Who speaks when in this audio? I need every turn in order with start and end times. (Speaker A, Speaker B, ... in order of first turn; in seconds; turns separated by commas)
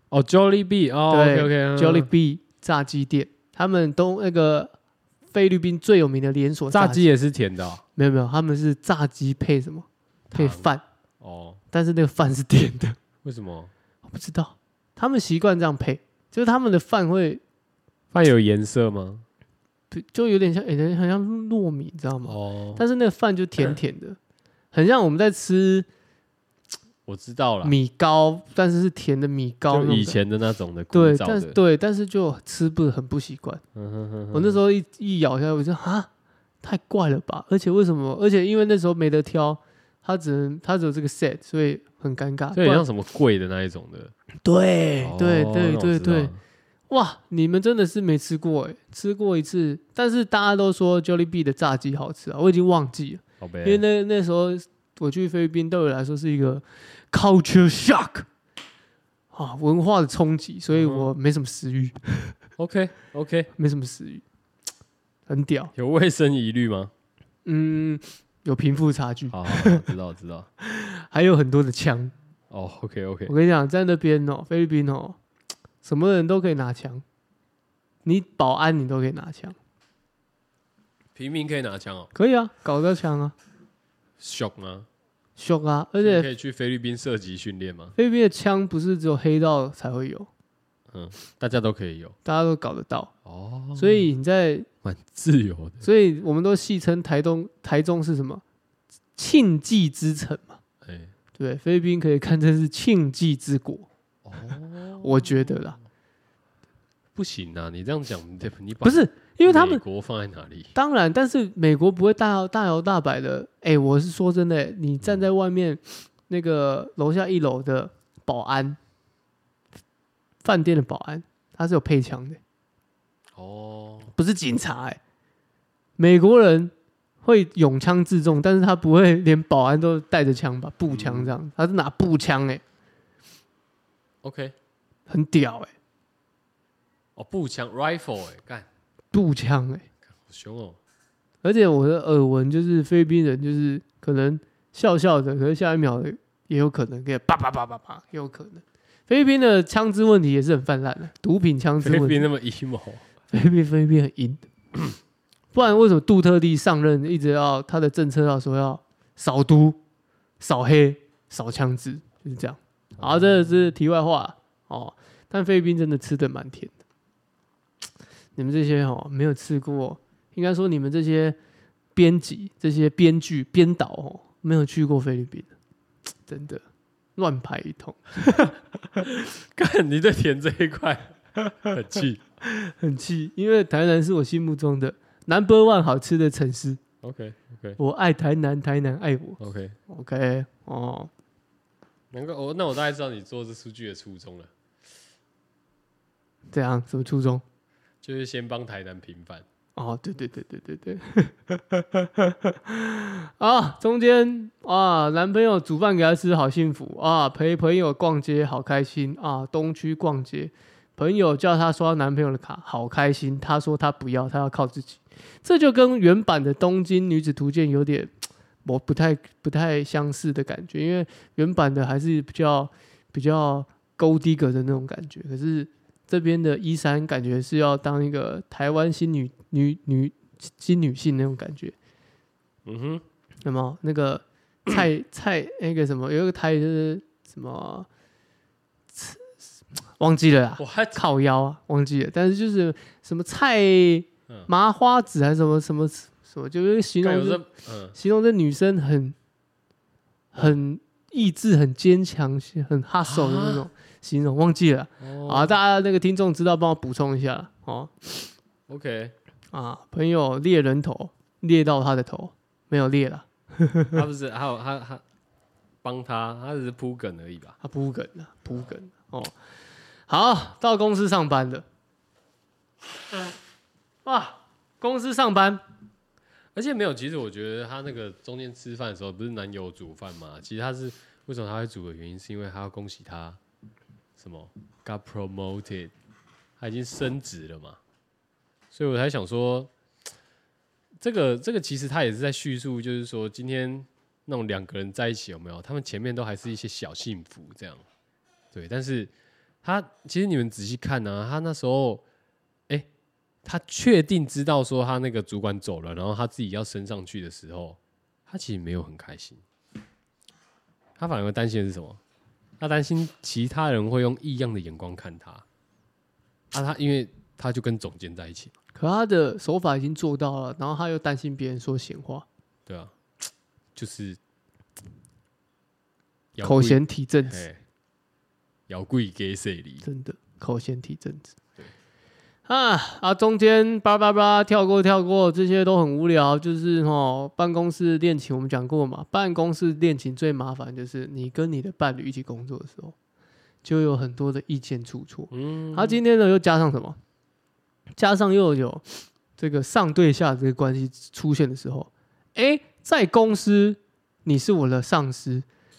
Speaker A: 0.1-2.1, Speaker B: 1.1-4.7, Speaker B: 5.3-7.1, Speaker A: 6.7-7.8, Speaker B: 8.0-10.8, Speaker A: 10.3-11.6, Speaker B: 11.7-13.0, Speaker A: 13.2-13.7, Speaker B: 14.1-17.4, Speaker A: 18.1-19.3, Speaker B: 19.9-24.2, Speaker A: 22.2-22.8, Speaker B: 24.7-25.9, Speaker A: 27.1-27.7, Speaker B: 27.6-30.2, Speaker A: 29.7-31.6, Speaker B: 30.9-33.6, Speaker A: 33.8-34.6, Speaker B: 34.3-36.1, Speaker B: 36.6-42.9, Speaker A: 42.5-44.1, Speaker B: 44.5-46.3, Speaker A: 45.0-46.4, Speaker B: 46.9-58.3, Speaker A: 53.4-53.8, Speaker B: 59.3-62.3, Speaker A: 60.7-61.1, Speaker A: 62.6-63.5, Speaker B: 63.5-64.2, Speaker B: 65.3-65.7, Speaker A: 65.8-66.9, Speaker B: 67.5-69.8, Speaker A: 69.3-70.5, Speaker B: 70.6-72.1, Speaker A: 72.5-73.3, Speaker B: 73.3-75.2, Speaker B: 75.8-77.0, Speaker B: 78.0-79.6, Speaker A: 81.2-82.1, Speaker B: 82.1-83.3, Speaker A: 84.2-84.9, Speaker B: 85.4-86.3, Speaker A: 86.0-88.0, Speaker B: 88.0-90.3, Speaker A: 90.9-92.2, Speaker B: 92.2-93.1, Speaker A: 93.2-94.0, Speaker B: 93.8-94.7, Speaker A: 94.8-95.8, Speaker B: 95.8-98.4, Speaker B: 99.2-100.6, Speaker A: 100.8-101.1, Speaker B: 101.4-103.9, Speaker A: 104.2-105.7, Speaker B: 105.0-105.8, Speaker A: 107.2-110.7, Speaker B: 108.8-109.8, Speaker B: 110.8-118.8, Speaker B: 120.4-122.4, Speaker A: 123.3-124.1, Speaker B: 124.2-125.0, Speaker B: 126.0-132.6, Speaker A: 130.9-131.3, Speaker A: 134.2-134.6, Speaker B: 135.1-135.7, Speaker A: 137.2-138.7, Speaker B: 139.1-139.8, Speaker A: 140.1-140.8, Speaker B: 141.4-152.3, Speaker A: 151.8-153.0, Speaker B: 153.3-154.4, Speaker B: 155.5-159.8, Speaker B: 160.4-166.7, Speaker A: 163.0-163.4, Speaker B: 168.4-171.4, Speaker B: 171.9-175.5, Speaker B: 176.3-176.6, Speaker B: 177.2-178.6, Speaker A: 179.0-182.2, Speaker B: 182.4-186.8, Speaker A: 187.0-187.8, Speaker B: 187.8-191.1, Speaker A: 189.4-189.8, Speaker A: 192.1-194.5, Speaker B: 196.5-197.4, Speaker A: 198.0-199.4, Speaker B: 199.8-218.1, Speaker B: 218.6-231.8, Speaker A: 232.7-233.0, Speaker B: 233.4-237.9, Speaker B: 238.9-239.3, Speaker B: 240.0-249.2, Speaker A: 240.6-241.1, Speaker A: 247.0-248.0, Speaker B: 250.3-258.3, Speaker A: 253.1-253.7, Speaker A: 255.0-255.6, Speaker A: 258.7-259.1, Speaker B: 259.5-264.0, Speaker A: 263.9-265.0, Speaker A: 265.8-267.6, Speaker B: 267.6-269.3, Speaker B: 270.1-271.6, Speaker B: 274.1-275.6, Speaker A: 276.5-283.4, Speaker A: 284.2-285.9, Speaker A: 286.6-287.8, Speaker A: 288.7-289.7, Speaker A: 291.0-297.8, Speaker A: 298.5-299.1, Speaker A: 299.6-302.0, Speaker A: 303.4-309.4, Speaker A: 311.0-312.0, Speaker A: 312.6-315.4, Speaker A: 316.5-318.5, Speaker B: 318.8-322.3, Speaker A: 322.7-322.9, Speaker A: 323.8-324.2, Speaker A: 326.4-327.6, Speaker B: 326.4-327.4, Speaker A: 328.7-329.8, Speaker B: 329.8-331.3, Speaker B: 332.5-342.9, Speaker B: 343.6-347.0, Speaker A: 345.3-346.0, Speaker B: 348.0-348.9, Speaker B: 349.4-355.5